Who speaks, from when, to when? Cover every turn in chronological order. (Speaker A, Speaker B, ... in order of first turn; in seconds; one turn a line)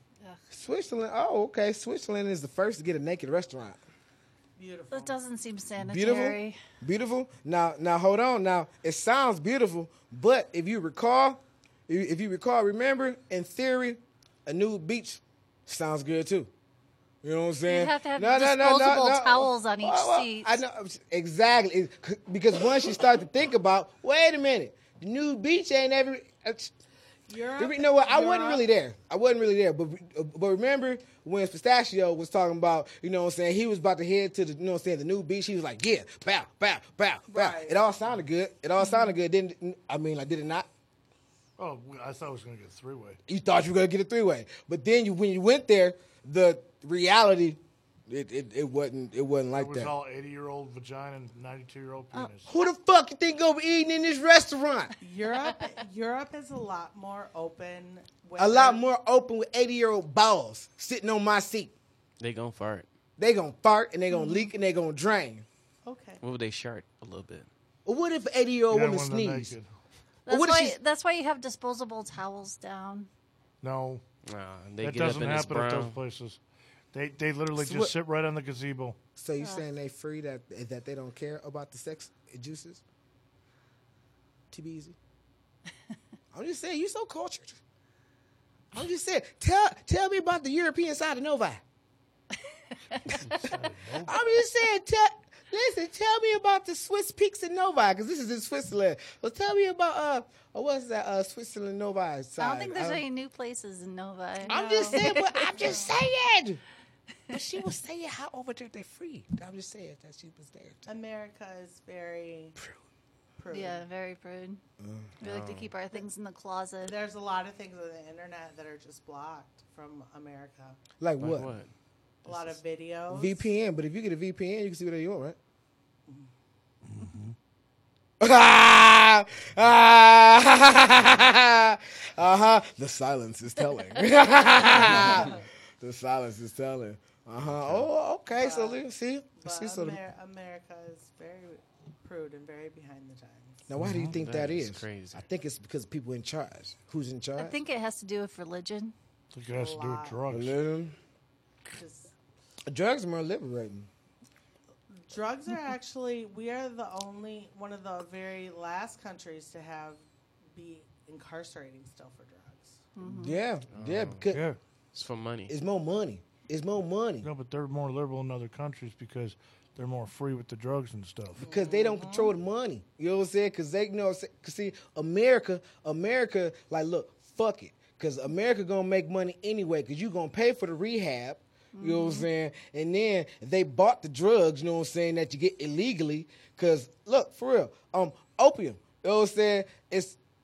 Speaker A: 0.5-3.8
Speaker B: 4.6-5.2
Speaker C: 4.9-6.6
Speaker A: 5.8-16.5
Speaker A: 17.2-26.7
Speaker C: 17.7-20.6
Speaker B: 27.3-28.7
Speaker A: 27.6-40.7
Speaker B: 37.3-38.1
Speaker C: 38.8-39.1
Speaker D: 41.6-43.2
Speaker A: 43.3-49.9
Speaker D: 49.5-52.5
Speaker A: 52.4-54.9
Speaker B: 55.0-58.8
Speaker A: 58.4-61.7
Speaker E: 62.2-62.9
Speaker A: 63.2-65.5
Speaker C: 64.1-64.5
Speaker B: 65.8-66.2
Speaker E: 66.2-67.5
Speaker A: 67.8-69.6
Speaker D: 68.7-69.7
Speaker A: 70.3-70.8
Speaker C: 70.3-73.1
Speaker D: 73.6-74.0
Speaker E: 74.2-76.0
Speaker D: 74.8-76.4
Speaker D: 76.9-79.0
Speaker A: 77.6-77.9
Speaker A: 79.2-82.8
Speaker A: 84.5-85.0
Speaker A: 86.3-87.6
Speaker A: 88.7-91.6
Speaker C: 92.9-93.2
Speaker D: 93.2-94.3
Speaker A: 94.0-103.0
Speaker C: 102.4-105.9
Speaker A: 104.5-106.6
Speaker B: 104.5-105.1
Speaker A: 107.3-110.9
Speaker B: 110.8-112.6
Speaker B: 113.4-113.8
Speaker C: 113.5-114.6
Speaker A: 114.8-115.1
Speaker C: 115.2-117.0
Speaker E: 115.2-115.7
Speaker B: 116.8-120.8
Speaker A: 121.0-121.5
Speaker E: 121.2-121.7
Speaker B: 122.2-123.4
Speaker A: 123.1-125.4
Speaker D: 126.8-127.3
Speaker A: 128.2-140.0
Speaker B: 134.8-135.4
Speaker E: 137.5-137.9
Speaker B: 138.3-138.8
Speaker B: 139.4-143.7
Speaker A: 143.7-147.6
Speaker D: 143.8-144.2
Speaker E: 144.0-145.3
Speaker C: 147.4-148.9
Speaker D: 149.3-150.6
Speaker B: 149.5-150.3
Speaker A: 150.3-151.0
Speaker B: 151.7-152.1
Speaker A: 152.7-153.9
Speaker B: 154.9-162.8
Speaker C: 163.0-163.4
Speaker A: 163.0-164.4
Speaker E: 163.7-164.3
Speaker D: 164.3-164.6
Speaker E: 164.9-165.5
Speaker A: 165.5-167.3
Speaker D: 167.2-171.4
Speaker A: 171.4-190.2
Speaker B: 171.4-172.3
Speaker C: 181.7-182.3